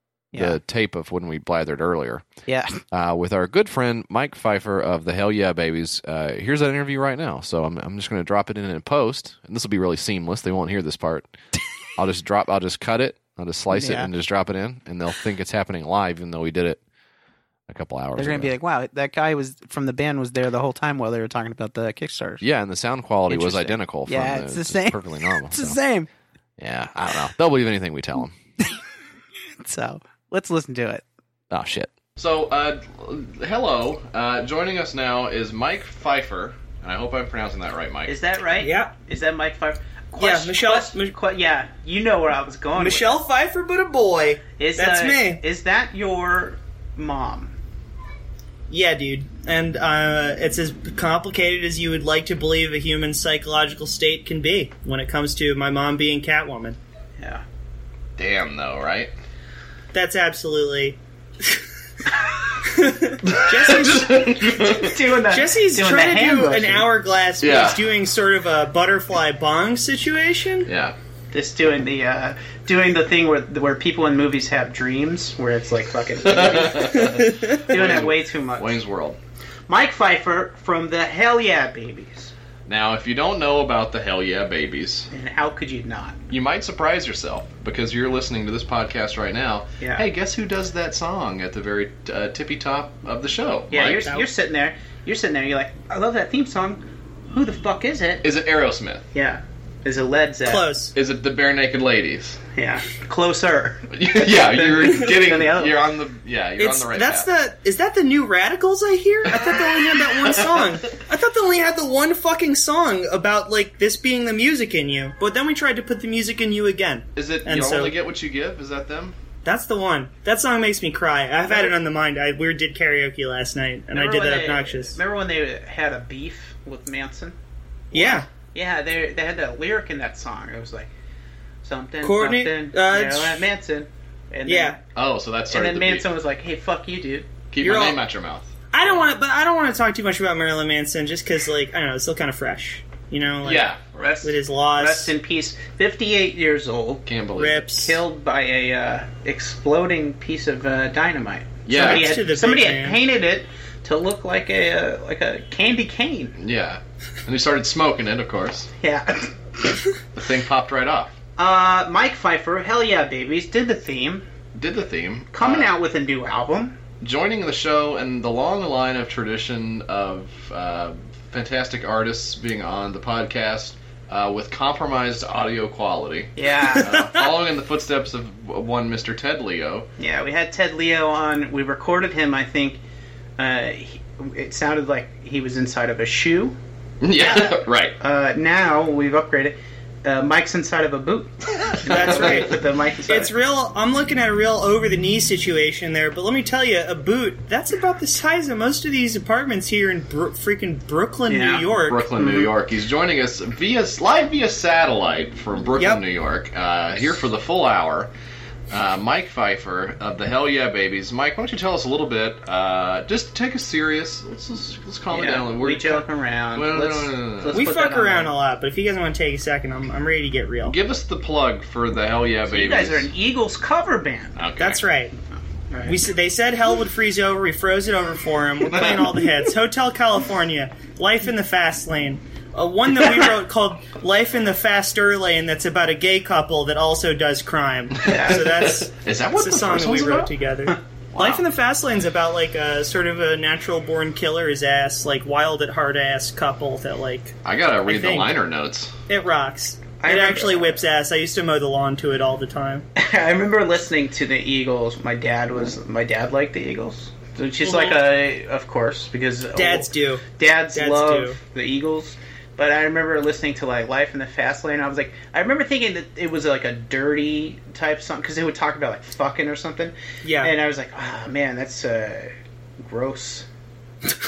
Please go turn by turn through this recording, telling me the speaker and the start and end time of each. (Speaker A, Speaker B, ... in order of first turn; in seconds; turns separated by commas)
Speaker A: 0.3-0.6, Speaker B: 0.3-2.2, Speaker A: 2.5-2.8, Speaker B: 2.9-11.4, Speaker B: 12.0-16.8, Speaker A: 13.7-14.1, Speaker B: 17.7-18.5, Speaker A: 18.1-22.4, Speaker B: 22.4-25.8, Speaker A: 23.3-26.1, Speaker B: 26.6-28.3, Speaker A: 29.6-31.0, Speaker B: 31.5-38.1, Speaker A: 38.1-43.2, Speaker C: 38.6-38.9, Speaker C: 40.2-41.1, Speaker C: 42.8-45.4, Speaker A: 44.6-47.5, Speaker C: 48.7-56.8, Speaker A: 57.2-57.4, Speaker B: 58.2-59.1, Speaker C: 59.9-61.6, Speaker C: 62.6-64.6, Speaker B: 63.3-65.0, Speaker A: 64.5-66.9, Speaker C: 65.3-70.7, Speaker B: 67.4-67.8, Speaker B: 70.7-70.9, Speaker A: 71.3-78.8, Speaker B: 76.2-79.2, Speaker C: 77.0-77.6, Speaker A: 79.7-82.3, Speaker B: 82.7-85.1, Speaker A: 85.1-86.2, Speaker B: 86.3-94.1, Speaker A: 89.8-90.1, Speaker A: 93.7-98.2, Speaker C: 93.8-94.2, Speaker B: 98.2-99.0, Speaker A: 99.1-100.6, Speaker C: 100.5-100.9, Speaker B: 100.9-102.4, Speaker A: 102.5-105.8, Speaker B: 103.9-107.3, Speaker C: 106.6-117.9, Speaker B: 109.3-110.8, Speaker B: 117.2-119.2, Speaker C: 119.4-125.0, Speaker A: 121.4-121.7, Speaker A: 123.9-127.3, Speaker C: 127.9-128.3, Speaker A: 127.9-130.9, Speaker A: 131.6-134.8, Speaker C: 132.0-133.5, Speaker C: 134.4-134.8, Speaker B: 134.9-136.1, Speaker A: 135.5-137.3, Speaker B: 137.5-138.5, Speaker C: 137.6-138.0, Speaker C: 138.7-143.7, Speaker B: 143.4-144.0, Speaker A: 143.9-147.1, Speaker C: 144.2-145.1, Speaker B: 147.1-147.7, Speaker C: 147.4-148.0, Speaker A: 147.7-156.4, Speaker B: 151.7-152.3, Speaker C: 151.7-153.0, Speaker B: 156.4-158.7, Speaker A: 158.8-159.3, Speaker B: 160.1-161.2, Speaker A: 161.4-164.2, Speaker B: 164.5-165.7, Speaker A: 165.3-166.8, Speaker B: 167.0-179.9, Speaker A: 176.3-176.9, Speaker C: 176.8-177.2, Speaker A: 180.0-182.8, Speaker A: 183.4-186.6, Speaker B: 187.0-187.9, Speaker A: 187.1-193.3, Speaker C: 191.8-202.1, Speaker A: 201.3-202.5, Speaker B: 201.8-208.1, Speaker B: 208.7-217.7, Speaker A: 215.1-218.3, Speaker C: 217.5-220.8, Speaker B: 220.6-223.1, Speaker A: 222.5-224.4, Speaker B: 224.3-224.8, Speaker C: 224.6-225.1, Speaker A: 225.7-226.0, Speaker C: 225.8-248.3, Speaker B: 228.6-229.2, Speaker B: 238.0-240.3, Speaker A: 238.0-238.5, Speaker B: 241.1-241.4, Speaker B: 247.4-248.9, Speaker C: 249.1-252.8, Speaker A: 250.0-250.8, Speaker A: 252.9-273.4, Speaker C: 257.6-258.0, Speaker C: 259.5-261.4, Speaker C: 270.2-270.5